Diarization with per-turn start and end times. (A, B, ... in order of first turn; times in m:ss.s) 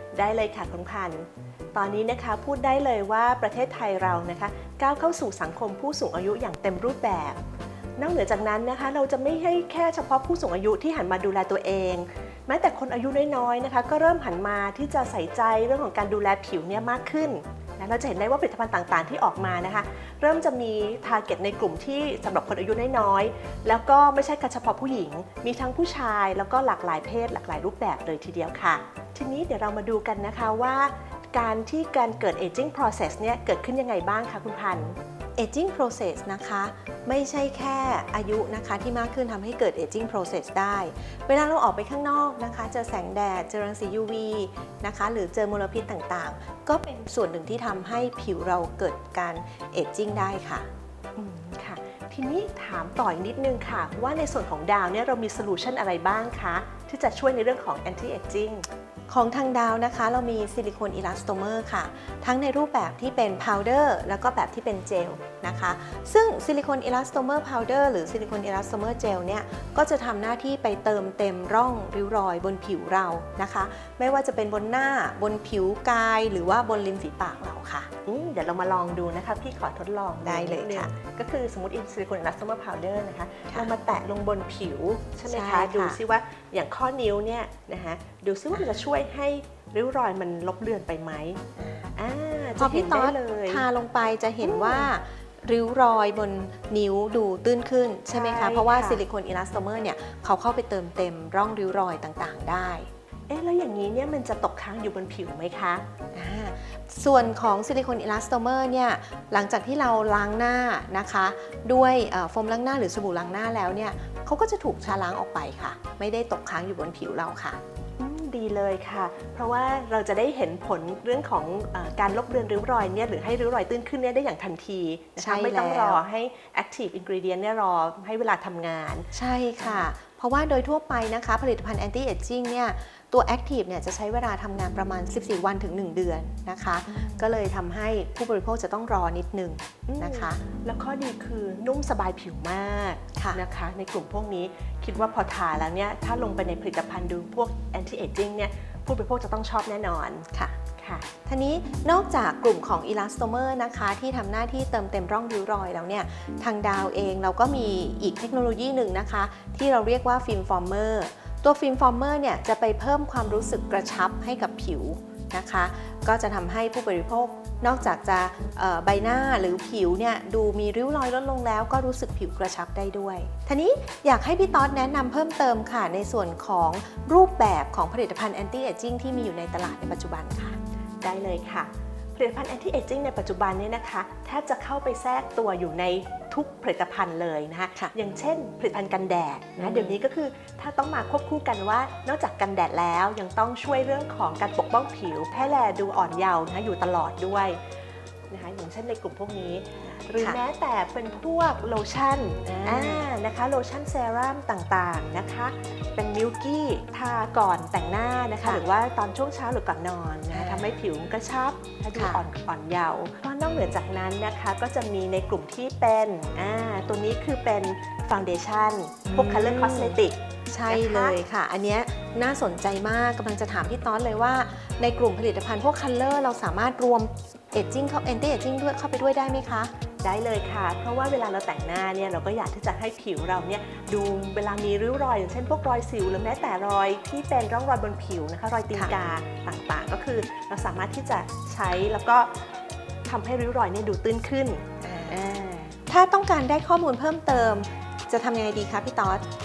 0:00.1-0:07.4 A
0:08.0-0:35.0 A
0:35.4-0:50.7 B
0:51.2-0:58.7 A
0:59.1-1:17.9 B
1:18.0-1:31.4 A
1:20.2-1:20.9 B
1:25.3-1:26.0 B
1:31.6-1:31.9 B
1:31.9-1:33.7 A
1:32.6-1:42.9 B
1:34.4-1:34.9 A
1:38.1-1:39.0 A
1:43.3-1:45.8 A
1:46.1-1:57.6 B
1:58.0-2:09.1 A
2:05.2-2:06.0 B
2:09.1-2:20.4 B
2:09.6-2:09.9 A
2:16.9-2:17.2 A
2:19.9-2:31.1 A
2:31.2-3:00.6 B
3:01.0-3:17.6 A
3:09.6-3:10.0 B
3:18.3-3:41.2 A
3:22.4-3:23.1 B
3:30.3-3:30.8 B
3:32.0-3:32.2 B
3:39.1-3:49.7 B
3:50.0-4:02.3 A
4:03.0-4:04.7 A
4:04.8-4:09.2 B